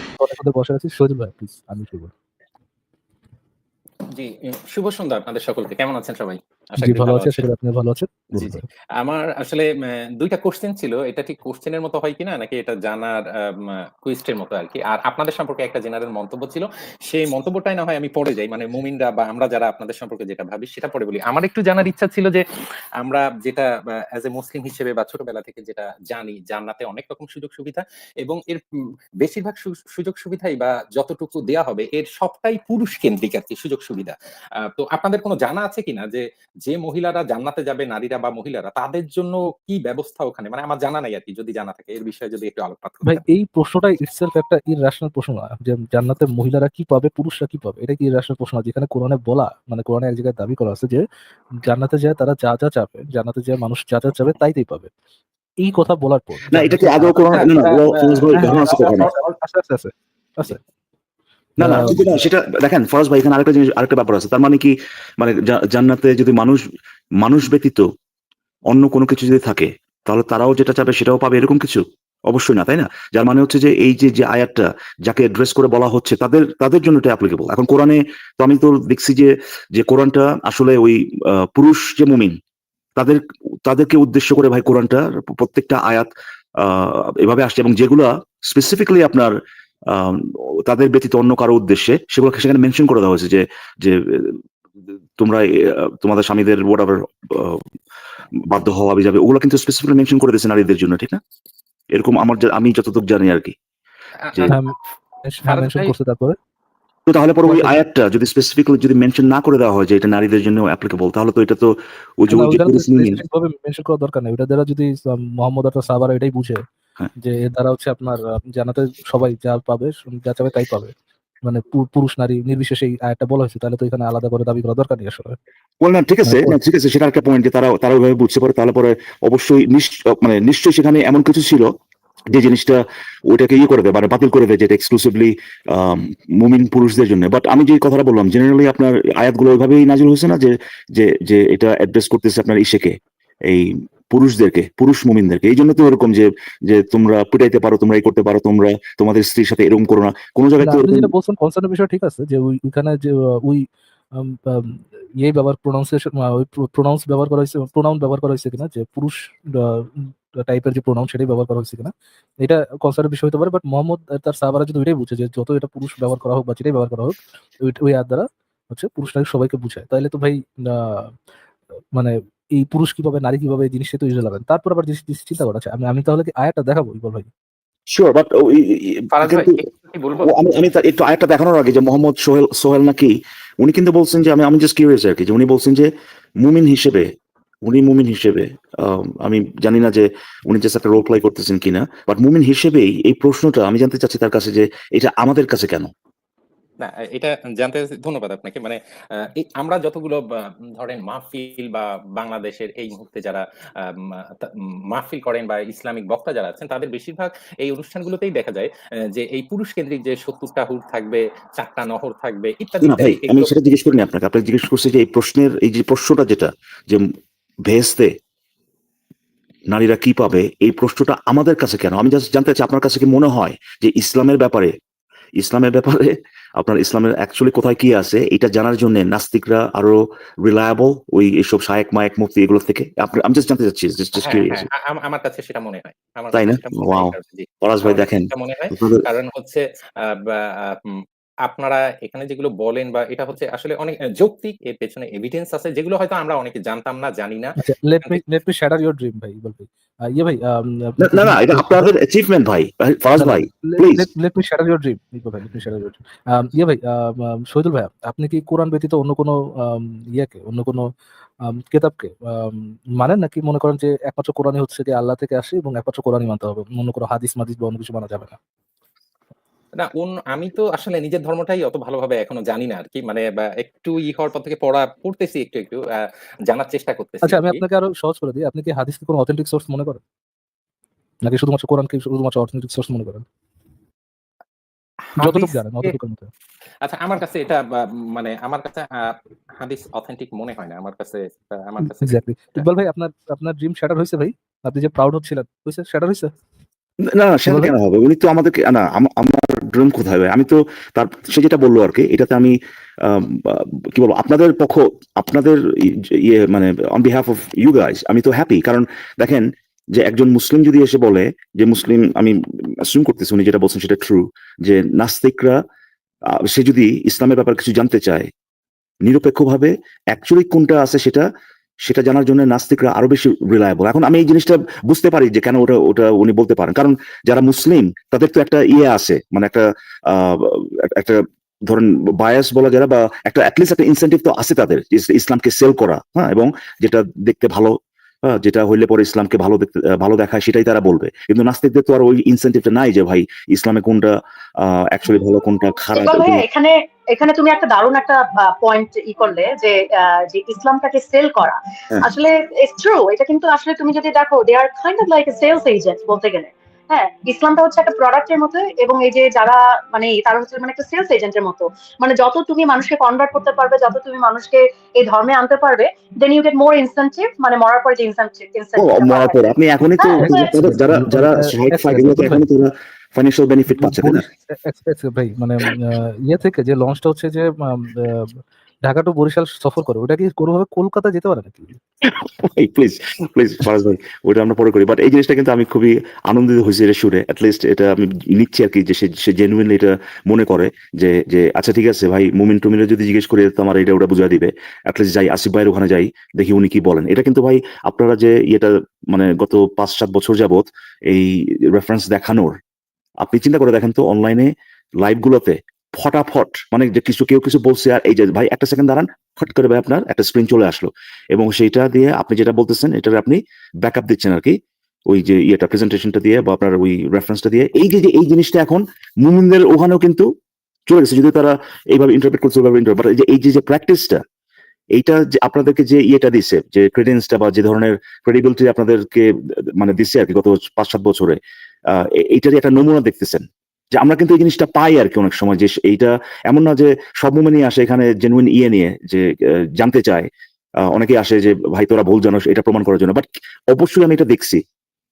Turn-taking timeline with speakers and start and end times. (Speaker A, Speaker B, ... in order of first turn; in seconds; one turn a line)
Speaker A: 0.2-2.1
Speaker B: 4.1-7.4
Speaker A: 6.8-8.6
Speaker B: 8.4-22.4
Speaker B: 23.0-28.6
Speaker B: 29.2-43.2
Speaker A: 43.0-51.0
Speaker A: 51.6-54.9
Speaker A: 55.6-57.5
Speaker C: 56.5-59.1
Speaker B: 57.3-59.1
Speaker A: 58.3-60.6
Speaker C: 61.6-66.6
Speaker A: 61.6-62.0
Speaker C: 67.2-67.8
Speaker C: 68.7-82.4
Speaker C: 83.0-89.3
Speaker C: 89.9-94.4
Speaker C: 95.2-97.6
Speaker C: 98.5-101.2
Speaker C: 101.9-103.5
Speaker B: 104.2-104.6
Speaker A: 104.5-106.4
Speaker B: 105.5-105.9
Speaker C: 107.1-113.2
Speaker A: 107.5-107.8
Speaker A: 112.3-116.6
Speaker A: 117.2-120.9
Speaker A: 121.4-125.4
Speaker C: 125.8-131.7
Speaker A: 126.2-126.6
Speaker C: 132.3-151.1
Speaker A: 150.6-153.6
Speaker A: 154.2-171.1
Speaker A: 171.9-177.3
Speaker C: 177.9-179.6
Speaker B: 179.1-180.3
Speaker C: 180.2-187.1
Speaker C: 187.6-195.9
Speaker B: 196.8-213.5
Speaker C: 212.8-217.1
Speaker C: 217.7-218.1
Speaker C: 219.7-224.7
Speaker C: 225.4-234.7
Speaker B: 234.2-248.2
Speaker C: 236.3-239.0
Speaker A: 247.6-251.9
Speaker C: 251.0-254.1
Speaker A: 253.2-260.9
Speaker A: 261.7-268.4
Speaker B: 269.8-277.6
Speaker A: 277.2-280.0
Speaker A: 281.2-283.2
Speaker B: 285.1-285.9
Speaker A: 285.2-286.3
Speaker B: 286.8-292.6
Speaker A: 291.8-296.3
Speaker C: 297.0-315.6
Speaker A: 297.5-297.7
Speaker C: 316.3-318.3
Speaker C: 319.0-321.3
Speaker C: 321.8-346.4
Speaker D: 345.9-369.5
Speaker C: 368.8-374.2
Speaker D: 370.0-370.5
Speaker A: 370.2-372.4
Speaker A: 373.7-381.8
Speaker C: 382.0-402.6
Speaker C: 403.2-414.6
Speaker C: 415.1-420.3
Speaker C: 420.9-424.2
Speaker C: 424.9-431.4
Speaker C: 431.9-440.3
Speaker C: 440.9-444.6